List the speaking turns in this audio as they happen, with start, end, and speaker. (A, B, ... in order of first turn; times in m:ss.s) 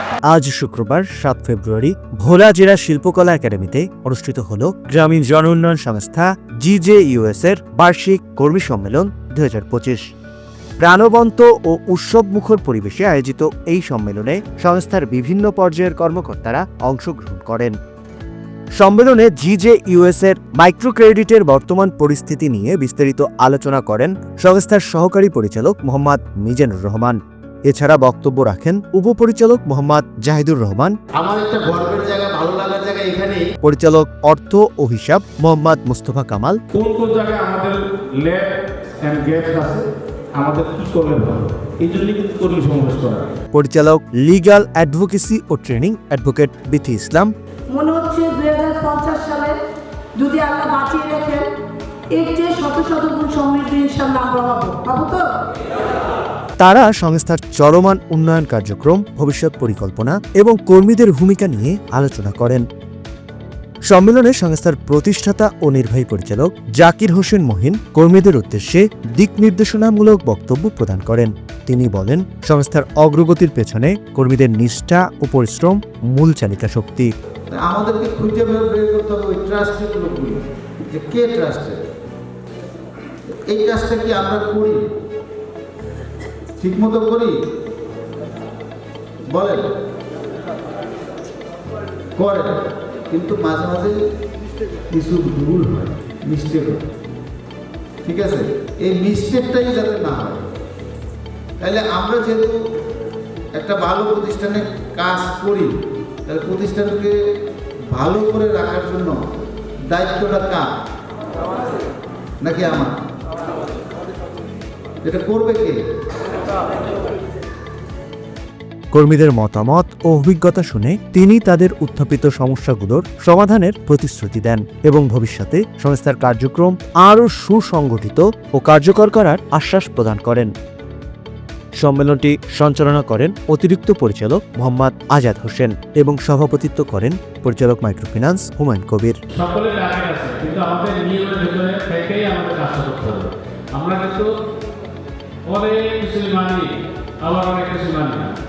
0:00.3-0:10.0 A
0:10.8-0:17.8 A
0:18.8-0:30.9 A
0:31.2-0:33.5 B
0:33.6-0:36.6 A
0:36.7-0:43.3 C
0:43.5-0:47.3 A
0:47.7-0:49.6 D
0:50.2-0:51.5 D
0:52.1-0:55.3 D
0:56.6-1:02.6 A
1:03.9-1:17.1 A
1:17.5-1:21.8 B
1:23.3-1:24.8 B
1:26.6-1:27.3 B
1:29.3-1:29.7 B
1:32.2-1:34.0 B
1:34.9-1:36.8 B
1:38.0-1:40.5 B
1:41.6-1:42.6 B
1:43.5-1:45.7 B
1:46.3-1:47.2 B
1:47.9-1:49.2 B
1:49.9-1:50.7 B
1:52.4-1:52.9 B
1:55.0-1:55.8 B
1:58.9-2:10.5 A
2:11.8-2:19.2 A
2:19.3-2:24.3 C
2:25.5-2:26.7 C
2:27.2-2:28.3 C